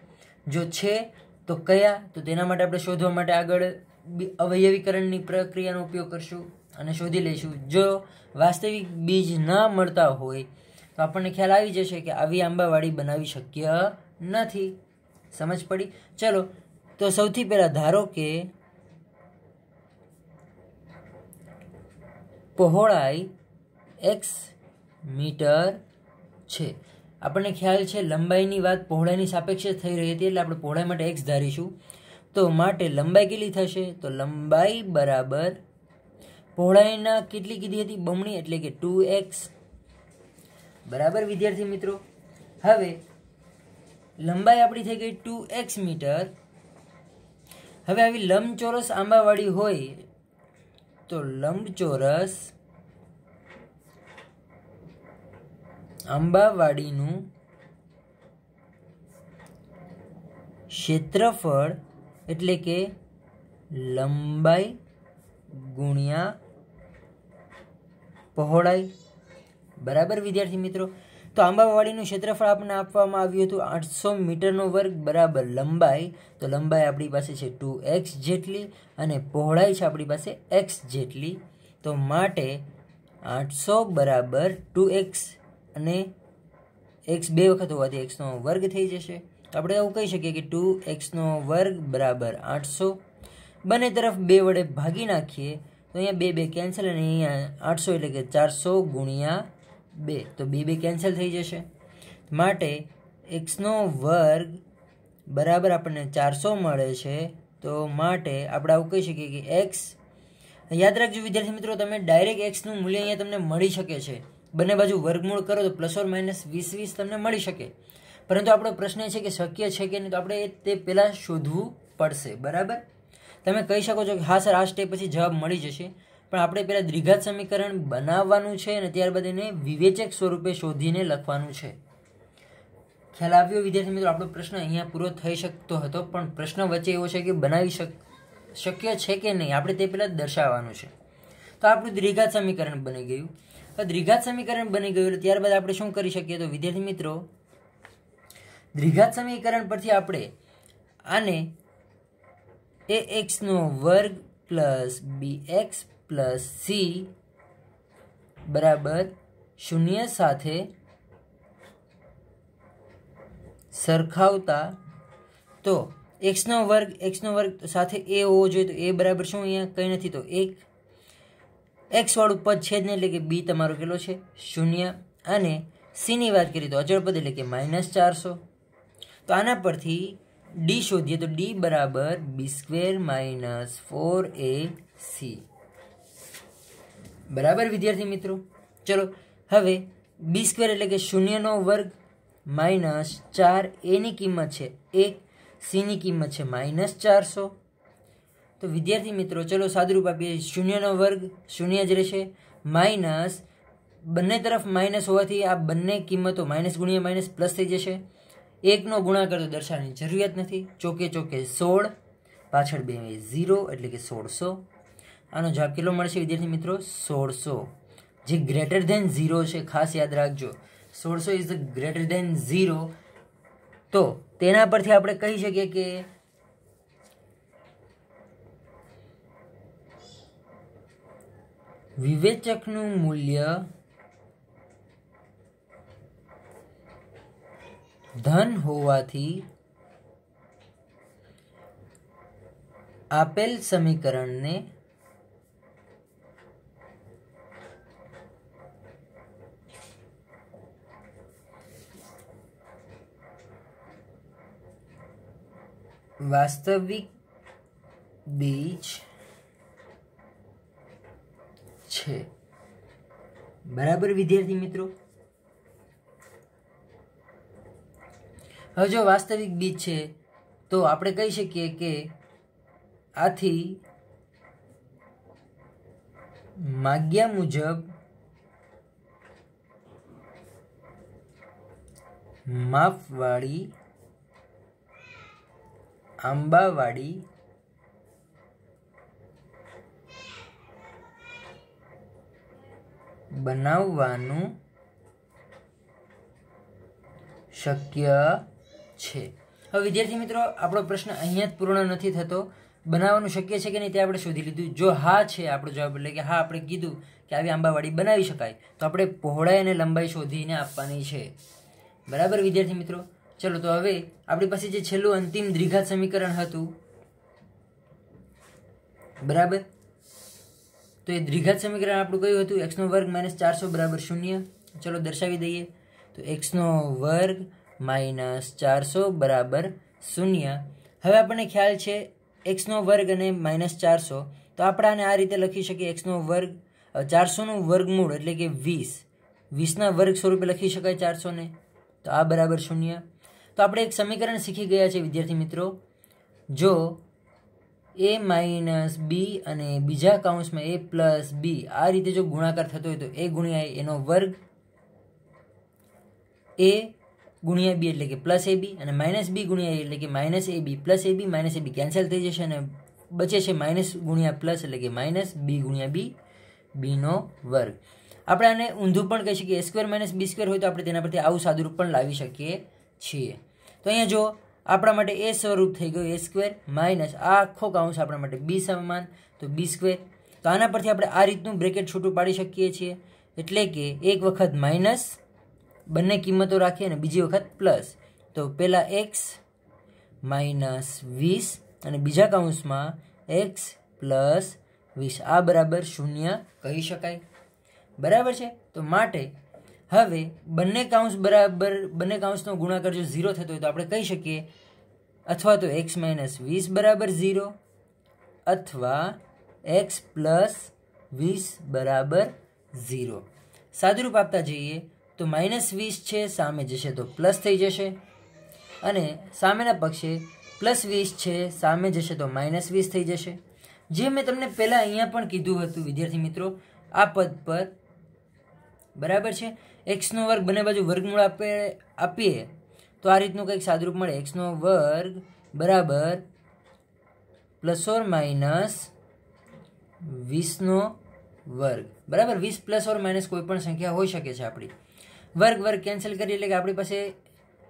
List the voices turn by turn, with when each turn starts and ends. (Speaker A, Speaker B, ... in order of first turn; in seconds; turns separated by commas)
Speaker A: 0.5-14.8, Speaker A: 15.3-18.5, Speaker A: 22.6-23.3, Speaker A: 24.0-24.5, Speaker A: 25.1-25.8, Speaker A: 26.5-31.7, Speaker A: 32.3-35.6, Speaker A: 36.5-39.5, Speaker A: 40.9-42.0, Speaker A: 42.6-43.0, Speaker A: 44.2-46.3, Speaker A: 47.9-50.0, Speaker A: 51.1-52.5, Speaker A: 56.1-57.3, Speaker A: 60.7-62.9, Speaker A: 63.7-64.8, Speaker A: 65.5-66.3, Speaker A: 68.3-68.9, Speaker A: 69.8-82.6, Speaker A: 83.2-86.1, Speaker A: 87.1-93.0, Speaker A: 93.6-101.7, Speaker A: 102.3-104.6, Speaker A: 105.3-110.0, Speaker A: 110.7-117.7, Speaker A: 118.3-122.8, Speaker A: 123.4-131.8, Speaker A: 133.1-138.0, Speaker A: 138.5-140.9, Speaker A: 141.6-147.3, Speaker A: 148.7-150.3, Speaker A: 151.1-151.5, Speaker A: 152.9-157.1, Speaker A: 158.4-160.7, Speaker A: 163.7-164.8, Speaker A: 165.6-170.6, Speaker A: 171.9-178.4, Speaker A: 179.3-185.4, Speaker A: 187.3-191.9, Speaker A: 192.5-197.5, Speaker A: 198.6-203.4, Speaker A: 204.0-208.0, Speaker A: 208.6-211.9, Speaker A: 212.5-214.6, Speaker A: 215.3-217.7, Speaker A: 218.2-222.9, Speaker A: 223.9-226.1, Speaker A: 232.0-233.7, Speaker A: 238.2-239.5, Speaker A: 243.1-244.6, Speaker A: 256.2-257.1, Speaker A: 258.3-259.0, Speaker A: 261.9-262.3, Speaker A: 263.7-264.9, Speaker A: 268.8-270.1, Speaker A: 270.7-272.1, Speaker A: 273.2-273.8, Speaker A: 276.6-277.9, Speaker A: 282.5-283.7, Speaker A: 286.2-287.2, Speaker A: 293.3-294.5, Speaker A: 297.5-298.4, Speaker A: 298.9-311.3, Speaker A: 312.1-316.7, Speaker A: 319.2-319.6, Speaker A: 321.0-341.5, Speaker A: 342.0-343.0, Speaker A: 343.6-345.8, Speaker A: 346.5-347.0, Speaker A: 348.0-354.4, Speaker A: 356.6-366.1, Speaker A: 366.7-367.8, Speaker A: 368.3-385.2, Speaker A: 385.9-389.4, Speaker A: 390.2-397.2, Speaker A: 398.0-399.3, Speaker A: 399.9-404.5, Speaker A: 405.3-407.5, Speaker A: 408.5-418.0, Speaker A: 418.8-423.4, Speaker A: 423.9-427.7, Speaker A: 428.9-436.2, Speaker A: 437.6-438.9, Speaker A: 440.0-444.7, Speaker A: 445.4-447.1